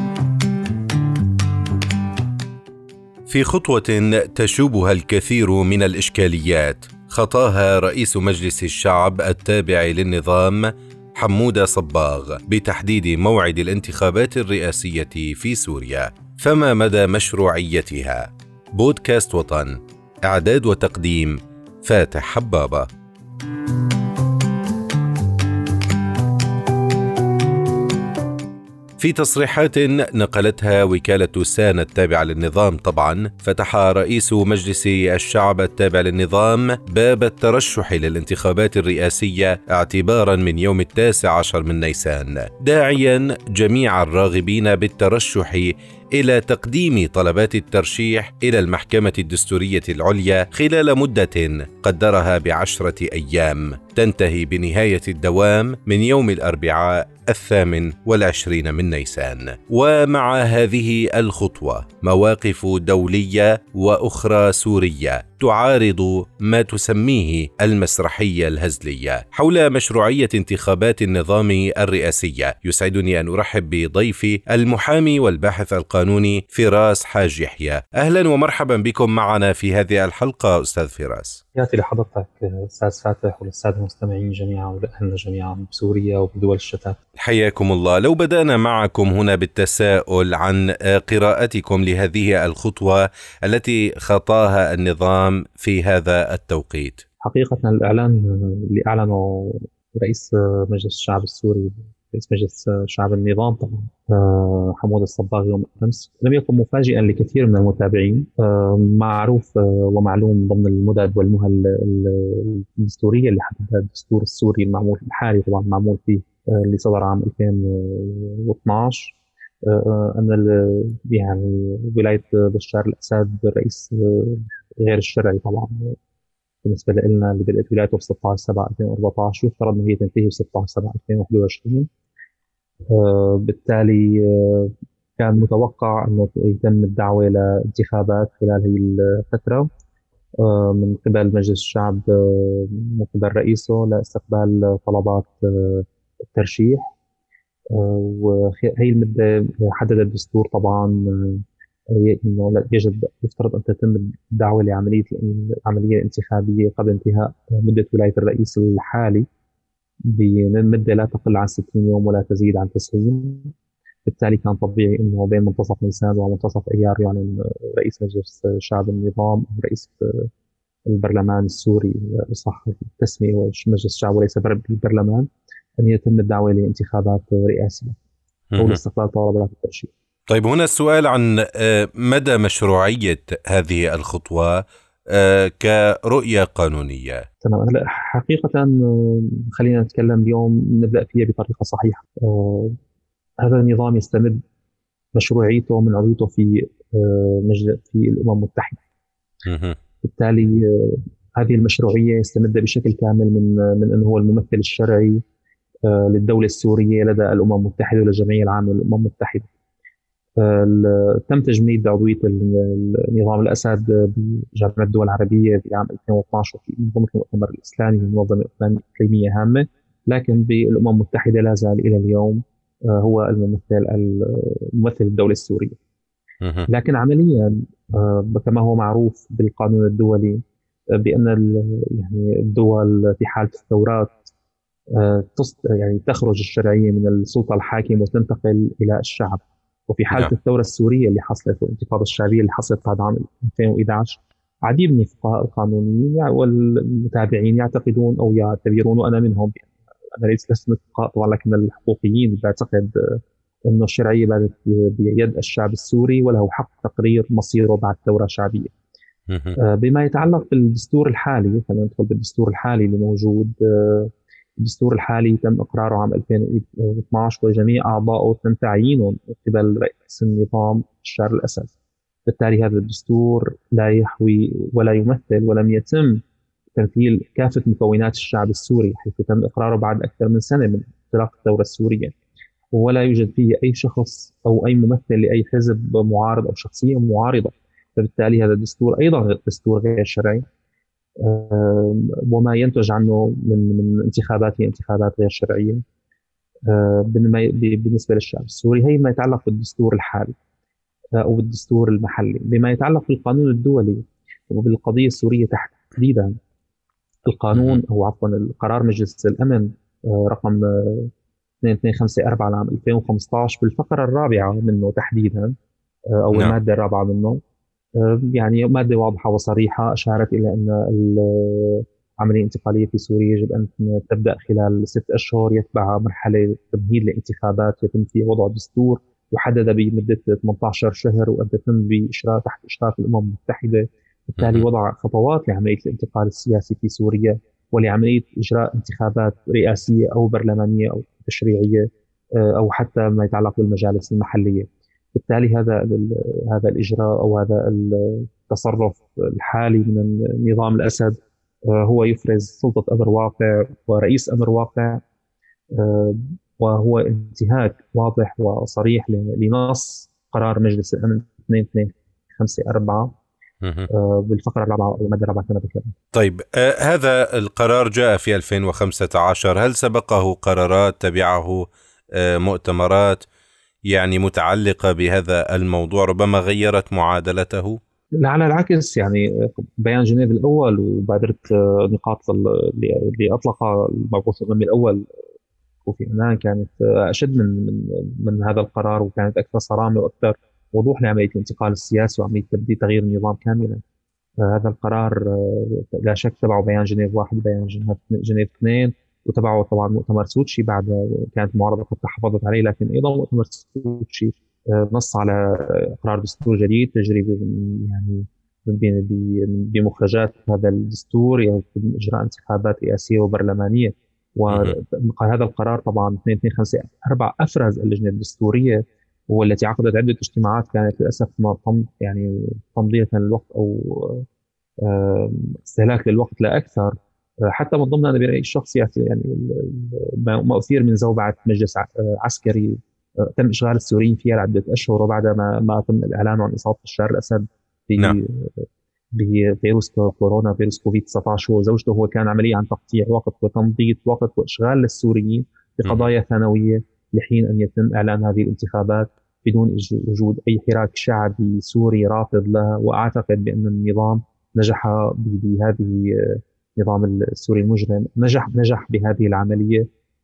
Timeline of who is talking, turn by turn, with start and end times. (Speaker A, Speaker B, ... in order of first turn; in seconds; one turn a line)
Speaker A: 3.3-22.9
Speaker A: 29.0-81.4
Speaker B: 81.5-87.0
Speaker A: 87.2-97.0
Speaker B: 97.2-126.0
Speaker B: 126.6-131.9
Speaker B: 132.9-139.7
Speaker B: 140.4-146.9
Speaker B: 147.7-159.3
Speaker B: 160.1-163.5
Speaker B: 164.1-170.3
Speaker B: 170.9-178.0
Speaker A: 178.5-178.8
Speaker B: 178.6-179.9
Speaker A: 180.3-184.6
Speaker A: 185.1-187.2
Speaker B: 187.4-192.8
Speaker B: 193.4-194.4
Speaker B: 195.2-198.8
Speaker A: 199.5-199.8
Speaker B: 200.0-205.2
Speaker B: 205.9-209.5
Speaker B: 210.4-225.8
Speaker A: 226.4-226.7
Speaker B: 226.7-230.4
Speaker B: 231.0-234.2
Speaker B: 234.9-258.7
Speaker A: 259.3-259.6
Speaker B: 259.6-271.7
Speaker B: 272.3-276.2
Speaker B: 276.8-282.1
Speaker B: 282.7-290.4
Speaker B: 291.2-295.8
Speaker B: 296.7-300.3
Speaker B: 301.2-306.4
Speaker B: 307.3-311.1
Speaker A: 307.5-307.8
Speaker B: 311.6-315.6
Speaker B: 316.1-317.4
Speaker B: 318.0-355.0
Speaker A: 334.4-334.7
Speaker B: 355.7-363.2
Speaker A: 363.6-363.9
Speaker B: 363.9-365.9
Speaker A: 366.1-373.2
Speaker A: 373.9-377.8
Speaker B: 378.2-385.1
Speaker B: 385.9-393.8
Speaker B: 394.4-424.3
Speaker A: 414.5-414.8
Speaker B: 424.8-459.9
Speaker A: 445.9-446.1